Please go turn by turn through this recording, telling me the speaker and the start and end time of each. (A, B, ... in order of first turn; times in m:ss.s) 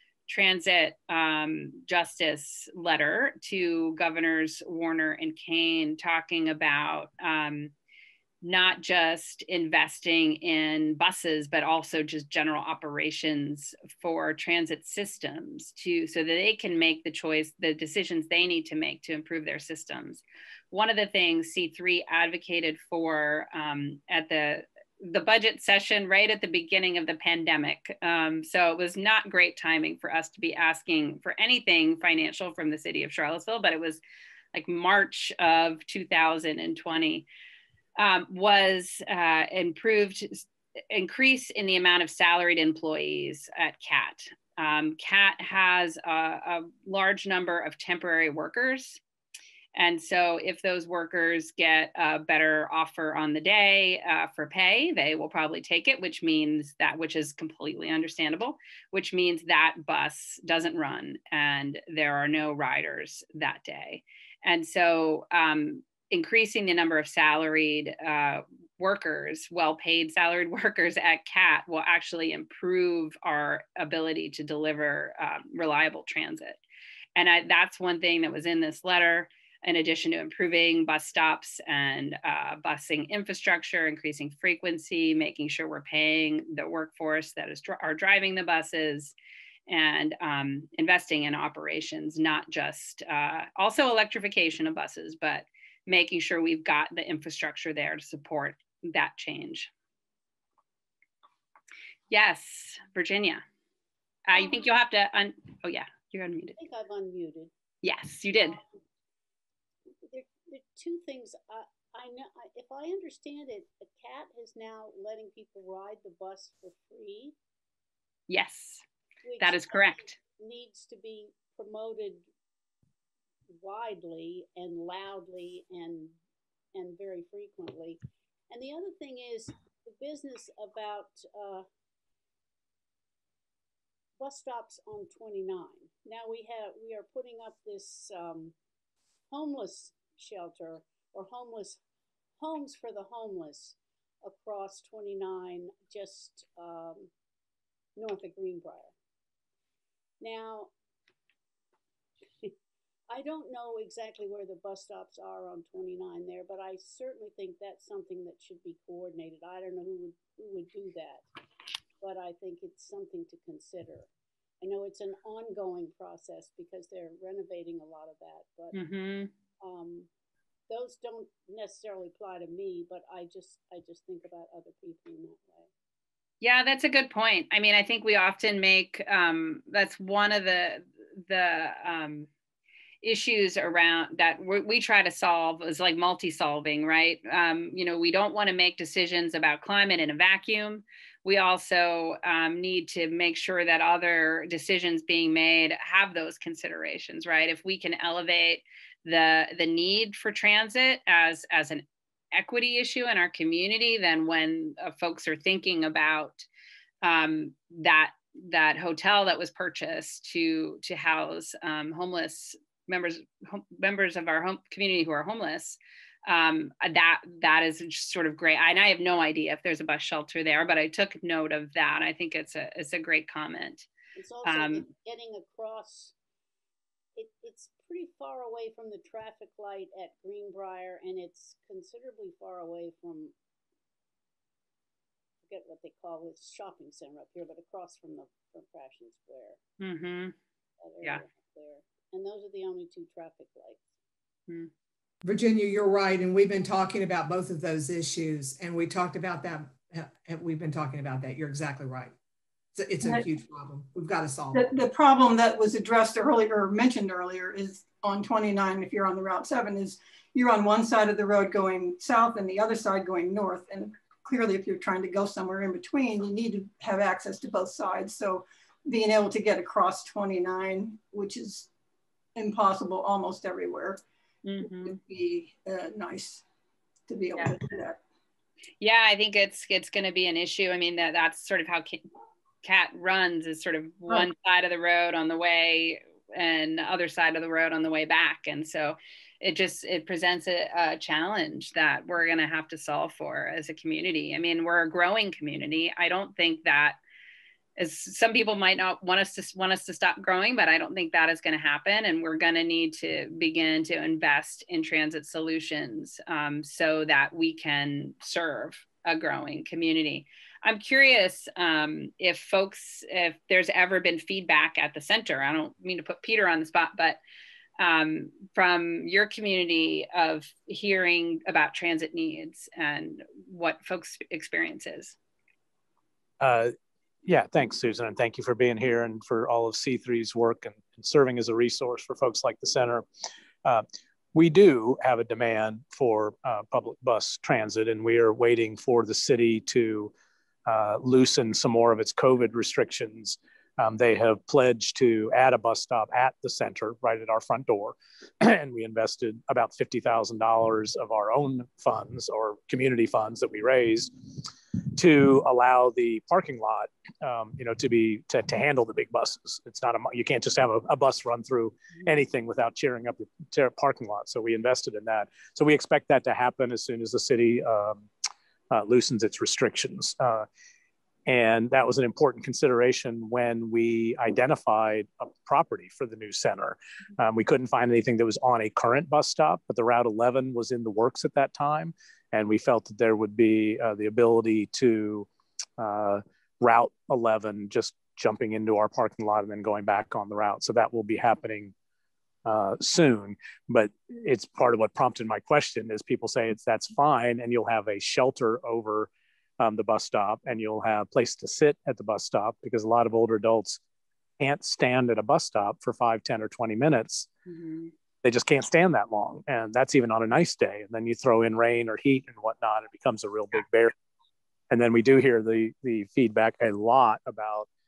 0:00.3-0:07.7 A
0:08.4-0:34.0 A
0:34.5-0:37.3 A
0:38.0-0:49.0 A
0:49.8-1:16.6 A
1:17.2-1:29.2 A
1:29.7-1:39.7 A
1:42.1-1:43.4 A
1:44.3-1:46.6 A
1:46.6-1:47.5 B
1:47.8-1:48.6 A
1:50.1-1:57.4 B
1:58.3-1:58.8 A
1:59.2-2:02.2 B
1:59.4-2:00.2 A
2:03.6-2:06.1 B
2:06.7-2:11.7 B
2:14.2-2:18.5 B
2:19.3-2:21.8 B
2:22.4-2:27.1 B
2:28.0-2:28.9 B
2:30.2-2:30.7 B
2:33.1-2:41.3 B
2:42.0-2:44.1 B
2:44.6-2:48.8 B
2:48.7-2:49.3 A
2:49.6-2:50.1 B
2:50.7-2:55.7 B
2:56.4-3:02.3 A
3:03.0-3:26.5 A
3:27.0-3:43.9 A
3:44.2-3:46.1 B
3:44.4-3:44.9 A
3:47.2-3:53.3 B
3:55.5-3:59.6 B
3:59.8-4:00.4 A
4:00.8-4:03.8 B
4:05.2-4:12.1 C
4:12.8-4:14.7 C
4:14.5-4:31.7 D
4:32.4-4:34.0 D
4:34.4-4:35.0 A
4:34.6-4:36.4 D
4:37.1-4:38.0 D
4:38.8-4:42.0 A
4:42.6-4:57.0 A
4:57.8-5:17.2 A
5:17.8-5:25.2 A
5:26.4-5:26.7 E
5:27.2-5:33.1 E
5:33.6-5:40.1 E
5:40.7-5:54.1 E
5:55.0-6:08.1 E
6:08.7-6:10.5 E
6:11.3-6:25.3 E
6:25.8-6:31.7 E
6:32.4-6:43.8 E
6:44.4-6:47.3 E
6:47.5-6:47.9 A
6:48.2-6:53.9 E
6:54.7-6:57.7 E